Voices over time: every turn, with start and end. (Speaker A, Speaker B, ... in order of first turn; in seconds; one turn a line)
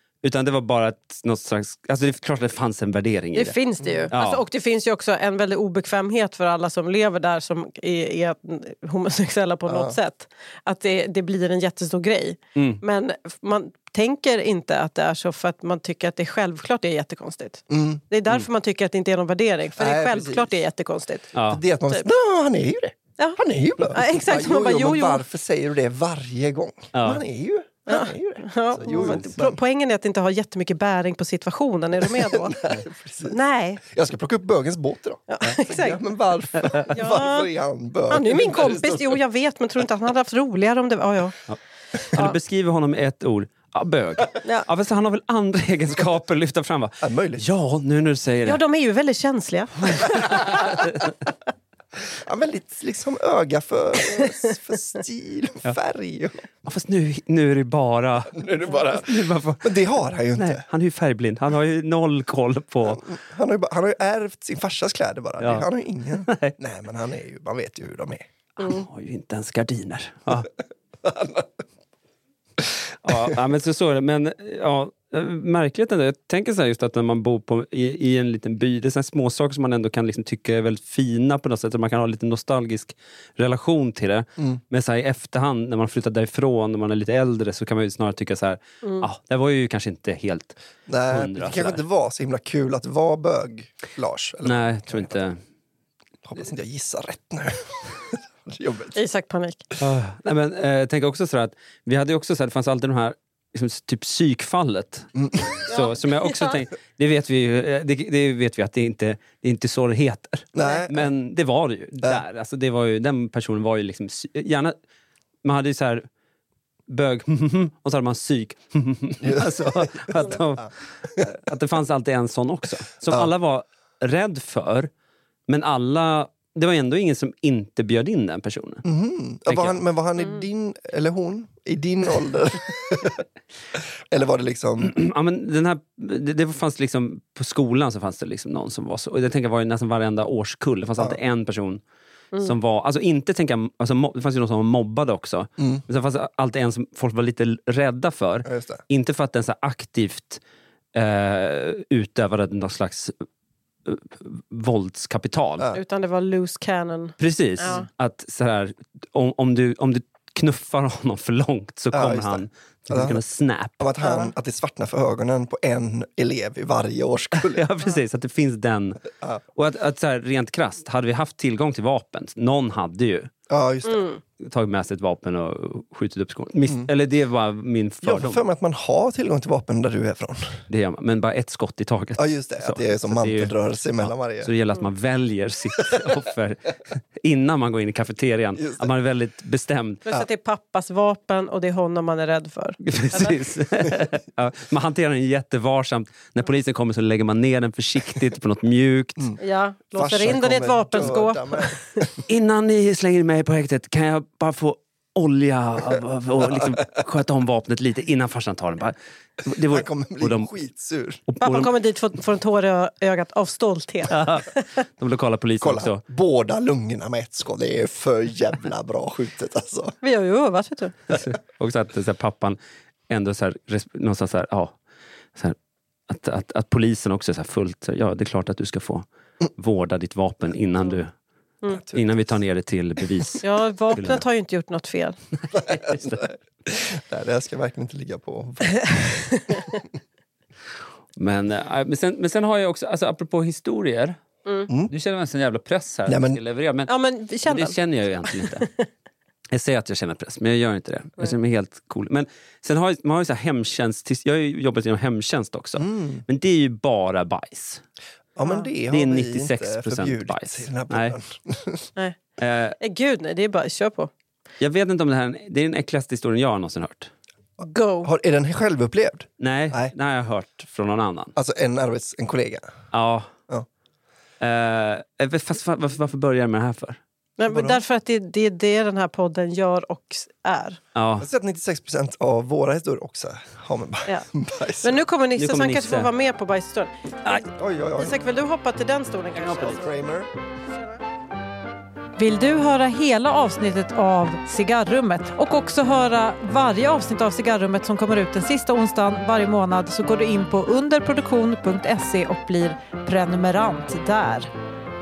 Speaker A: 0.2-3.6
Speaker B: 3.3-21.3
Speaker C: 3.8-4.1
Speaker A: 4.1-4.4
Speaker C: 9.7-10.0
Speaker A: 12.6-12.8
Speaker C: 17.7-18.0
Speaker C: 19.8-20.5
Speaker A: 21.4-21.6
Speaker C: 21.5-29.6
Speaker B: 23.9-25.2
Speaker A: 26.9-27.2
Speaker B: 27.9-32.6
Speaker A: 28.9-29.2
Speaker C: 32.1-39.1
Speaker B: 33.3-33.8
Speaker B: 35.3-36.0
Speaker B: 36.9-37.5
Speaker B: 38.1-41.4
Speaker A: 42.1-48.6
Speaker C: 47.0-47.5
Speaker B: 48.4-50.6
Speaker A: 49.9-51.1
Speaker C: 52.2-56.4
Speaker A: 56.6-63.0
Speaker C: 58.3-60.6
Speaker C: 62.9-68.2
Speaker A: 65.4-66.6
Speaker A: 68.6-70.5
Speaker C: 71.0-71.5
Speaker A: 73.0-90.6
Speaker C: 90.9-95.2
Speaker A: 91.1-91.8
Speaker A: 94.4-95.4
Speaker C: 96.2-99.0
Speaker B: 99.0-99.6
Speaker A: 99.8-114.8
Speaker C: 105.1-105.5
Speaker B: 105.7-106.6
Speaker C: 110.5-111.1
Speaker A: 115.5-116.0
Speaker A: 116.9-124.9
Speaker C: 119.2-120.4
Speaker A: 125.5-128.8
Speaker C: 128.8-133.2
Speaker A: 129.5-129.8
Speaker C: 134.1-135.0
Speaker A: 134.8-141.8
Speaker A: 142.3-150.4
Speaker C: 148.4-148.8
Speaker A: 150.9-153.1
Speaker A: 153.8-155.8
Speaker B: 155.7-157.8
Speaker A: 157.2-163.8
Speaker C: 161.9-163.2
Speaker C: 163.8-167.7
Speaker B: 164.0-164.3
Speaker A: 167.4-173.3
Speaker C: 173.5-174.1
Speaker B: 173.9-174.2
Speaker A: 174.4-178.4
Speaker C: 178.0-180.6
Speaker A: 180.7-190.0
Speaker C: 182.2-184.5
Speaker C: 188.6-188.9
Speaker B: 190.1-193.4
Speaker A: 192.8-199.3
Speaker B: 199.4-202.0
Speaker C: 199.9-202.1
Speaker A: 202.2-210.5
Speaker C: 209.7-211.2
Speaker A: 211.3-211.7
Speaker B: 211.4-214.6
Speaker A: 214.1-216.0
Speaker C: 215.6-219.9
Speaker B: 220.0-220.9
Speaker A: 221.1-222.6
Speaker A: 223.1-224.8
Speaker A: 226.1-229.0
Speaker A: 229.6-231.1
Speaker C: 231.7-232.1
Speaker A: 231.9-234.2
Speaker B: 233.4-235.2
Speaker A: 235.5-236.3
Speaker C: 235.9-239.8
Speaker A: 241.2-244.2
Speaker A: 244.7-246.9
Speaker C: 246.1-246.4
Speaker B: 246.9-248.9
Speaker A: 247.4-248.7
Speaker A: 249.5-257.8
Speaker C: 255.8-256.2
Speaker C: 258.4-261.9
Speaker B: 258.4-258.7
Speaker A: 258.9-261.2
Speaker A: 262.4-262.8
Speaker B: 262.8-264.1
Speaker A: 264.6-267.1
Speaker B: 267.6-268.1
Speaker C: 268.0-269.9
Speaker A: 269.4-271.3
Speaker C: 271.4-272.6
Speaker A: 272.9-273.3
Speaker A: 274.4-277.0
Speaker B: 277.4-280.8
Speaker C: 277.5-277.8
Speaker A: 280.9-281.3
Speaker C: 281.2-285.0
Speaker B: 284.8-287.4
Speaker A: 285.4-286.1
Speaker C: 287.5-288.2
Speaker B: 288.0-289.9
Speaker C: 289.4-290.3
Speaker A: 289.4-289.7
Speaker B: 290.7-291.0
Speaker B: 292.2-304.5